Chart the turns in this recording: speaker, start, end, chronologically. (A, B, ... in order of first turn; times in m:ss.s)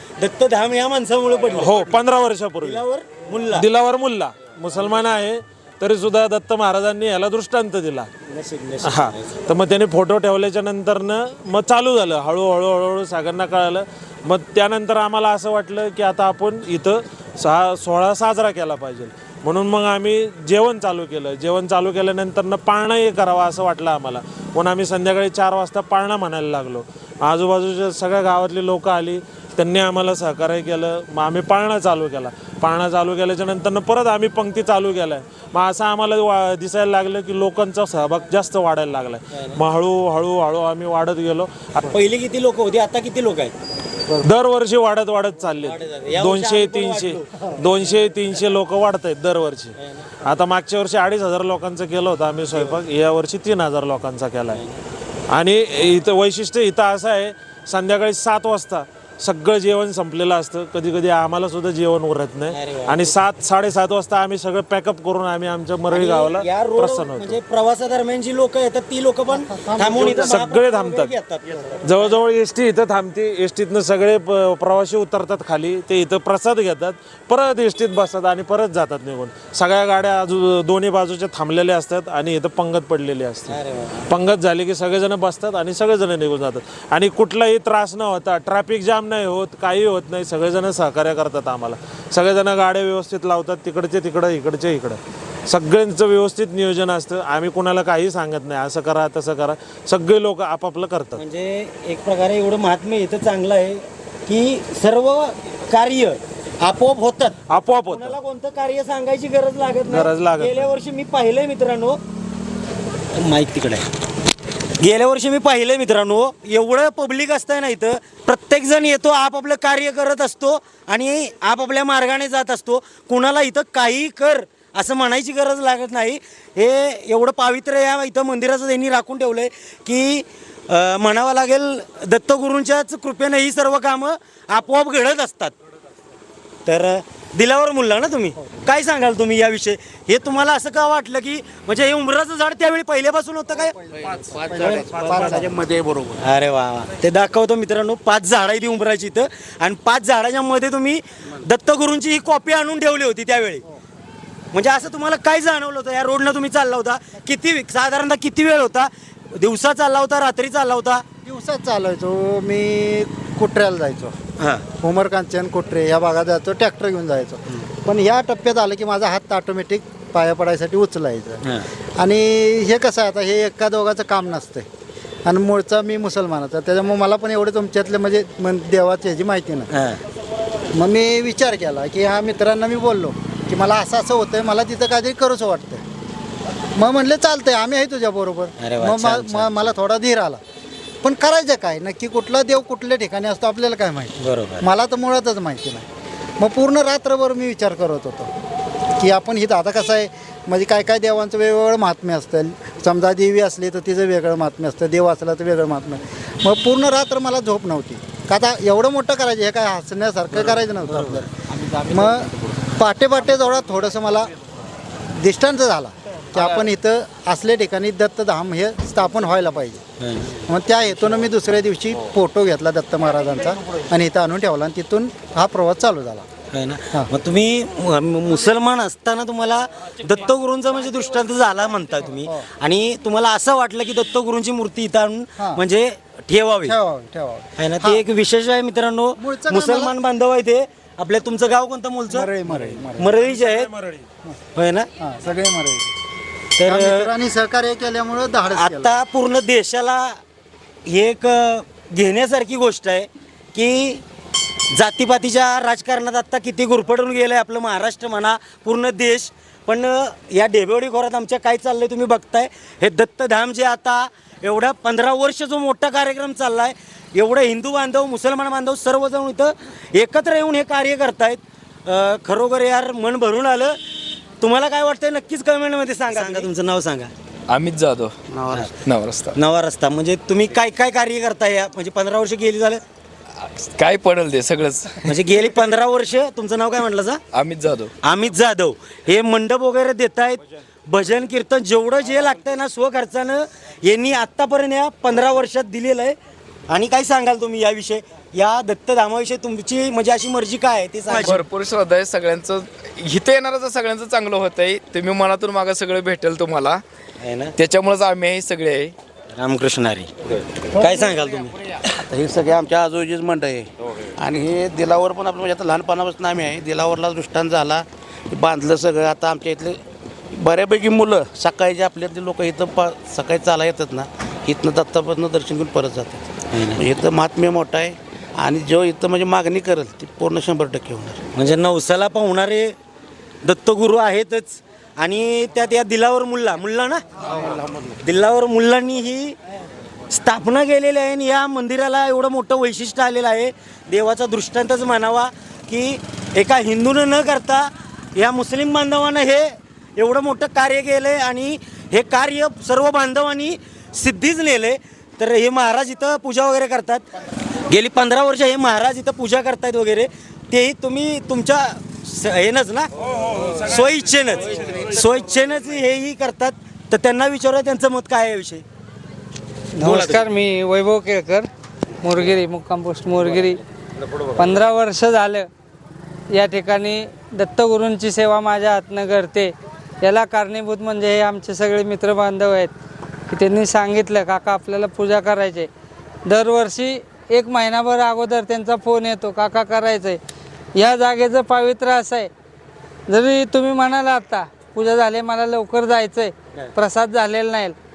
0:00.2-0:02.0 A
0:01.6-0:02.8 B
0:02.6-0:03.6 A
0:03.5-0:08.1 B
0:08.3-0:09.3 A
0:08.8-0:41.9 B
0:39.3-0:39.6 A
0:41.9-0:43.5 A
0:44.2-0:49.7 B
0:45.6-0:47.4 A
0:50.2-0:54.6 B
0:55.3-1:07.4 B
1:02.5-1:03.1 A
1:05.9-1:12.0 A
1:09.3-1:10.5 C
1:10.0-1:11.1 B
1:11.8-1:23.5 B
1:23.5-1:24.1 A
1:24.1-1:41.2 B
1:41.2-1:52.0 A
1:47.5-1:48.2 B
1:49.9-1:50.7 B
1:53.1-1:53.8 A
1:54.8-2:15.5 A
2:16.6-2:23.8 A
2:23.9-2:25.6 C
2:24.1-2:25.5 B
2:24.4-2:24.8 D
2:25.3-2:26.2 D
2:26.2-2:33.6 A
2:34.5-2:41.0 A
2:41.2-2:44.1 C
2:44.4-2:44.6 A
2:44.8-2:51.4 C
2:52.0-2:54.6 C
2:55.2-2:59.7 C
2:59.7-3:00.0 A
3:00.8-3:05.8 C
3:06.8-3:10.4 C
3:08.6-3:09.7 A
3:11.0-3:15.8 C
3:14.2-3:14.6 A
3:16.4-3:18.3 C
3:19.0-3:31.3 C
3:30.3-3:32.5 A
3:31.9-3:34.3 C
3:35.2-3:39.8 C
3:40.0-3:40.4 A
3:40.4-3:46.2 C
3:46.5-3:56.7 A
3:56.6-3:58.0 C
3:57.6-4:02.3 A
3:59.2-3:59.9 C
4:02.1-4:03.1 C
4:02.5-4:04.1 B
4:03.0-4:03.7 A
4:04.5-4:04.9 A
4:05.0-4:05.9 C
4:06.6-4:07.1 A
4:06.6-4:09.0 C
4:08.5-4:10.2 A
4:10.9-4:14.0 A
4:14.8-4:33.8 A
4:34.4-4:37.1 A
4:37.5-4:38.1 E
4:38.3-4:38.7 A
4:38.8-4:39.3 E
4:39.3-4:42.8 A
4:43.4-4:45.1 E
4:45.1-4:47.2 A
4:47.3-4:47.9 E
4:48.0-4:56.2 A
4:56.7-5:01.4 A
5:01.1-5:06.8 E
5:07.2-5:07.5 A
5:07.6-5:08.9 E
5:09.4-5:10.1 A
5:10.7-5:11.6 A
5:12.0-5:26.2 D
5:26.5-5:26.8 A
5:26.7-5:31.2 D
5:31.3-5:32.7 A
5:33.4-5:37.0 A
5:37.3-5:38.0 D
5:38.0-5:39.3 A
5:40.1-5:57.0 A
5:57.7-6:08.6 A
6:09.8-6:11.5 F
6:09.8-6:10.2 A
6:12.0-6:13.6 F
6:13.9-6:14.5 A
6:14.4-6:15.5 F
6:16.3-6:22.7 F
6:23.3-6:25.7 F
6:26.2-6:30.2 F
6:30.8-6:32.3 F
6:33.1-6:37.8 F